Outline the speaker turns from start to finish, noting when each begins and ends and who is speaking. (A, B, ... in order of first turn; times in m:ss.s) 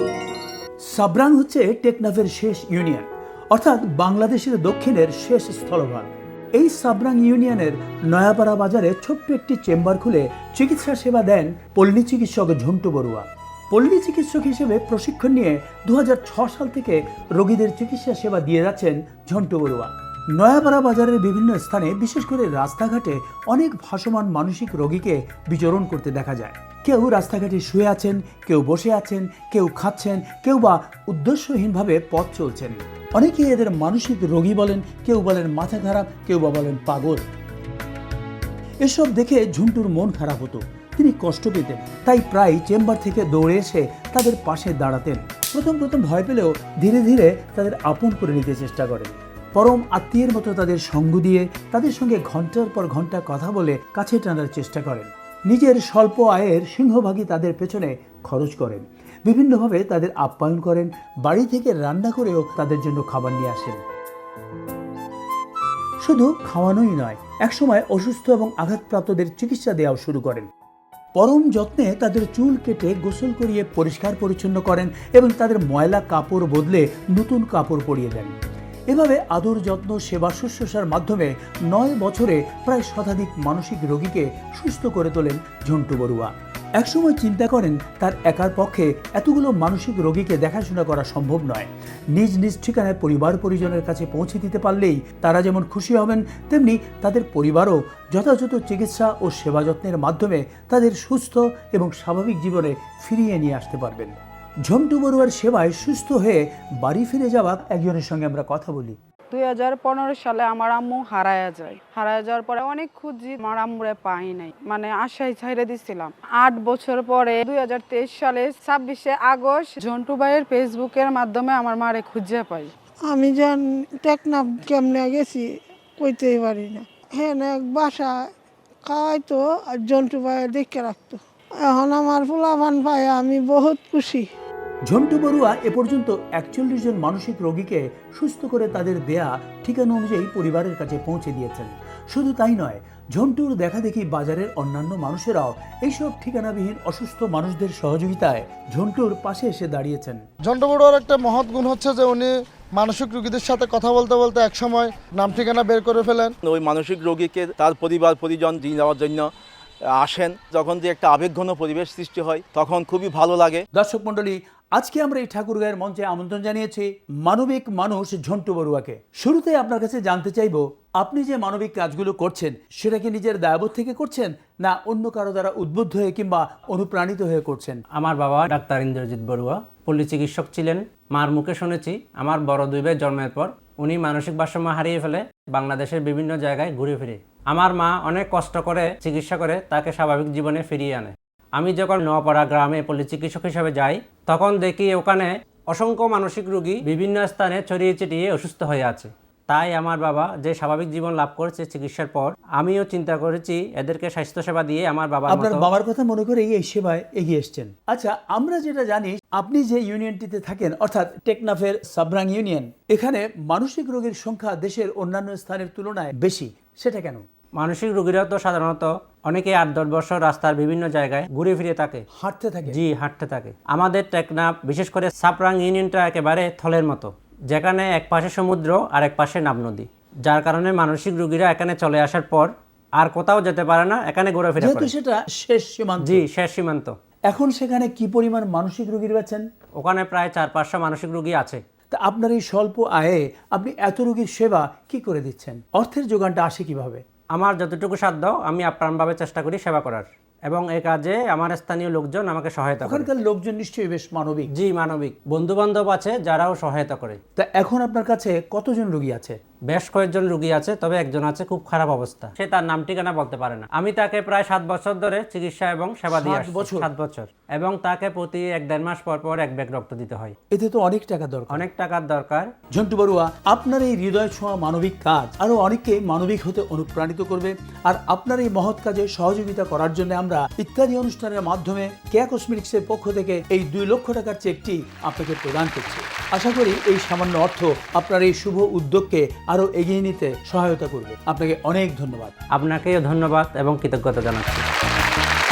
0:00.9-0:37.3 A
0:38.8-1:03.8 A
1:06.0-1:10.5 A
1:11.2-1:18.3 A
1:18.9-1:49.0 A
1:49.3-2:02.7 B
2:03.1-2:05.4 C
2:06.0-2:08.3 C
2:08.8-2:14.3 C
2:14.9-2:30.2 A
2:30.4-2:36.3 D
2:36.4-2:39.3 E
2:39.9-2:43.6 E
2:43.7-2:57.8 A
2:58.0-3:25.6 F
3:25.3-3:37.2 A
3:37.6-3:42.0 F
3:42.1-3:42.8 A
3:42.7-3:52.5 F
3:53.0-3:54.9 F
3:54.6-3:56.2 A
3:56.0-3:56.9 F
3:57.3-3:59.4 A
3:59.8-4:01.6 F
4:01.9-4:07.0 A
4:07.3-4:13.1 F
4:12.8-4:14.5 A
4:14.5-4:17.2 F
4:17.4-4:19.4 A
4:19.7-4:30.3 F
4:26.1-4:26.9 A
4:30.5-4:31.6 A
4:31.5-4:32.5 F
4:32.7-4:52.3 A
4:52.5-4:54.6 F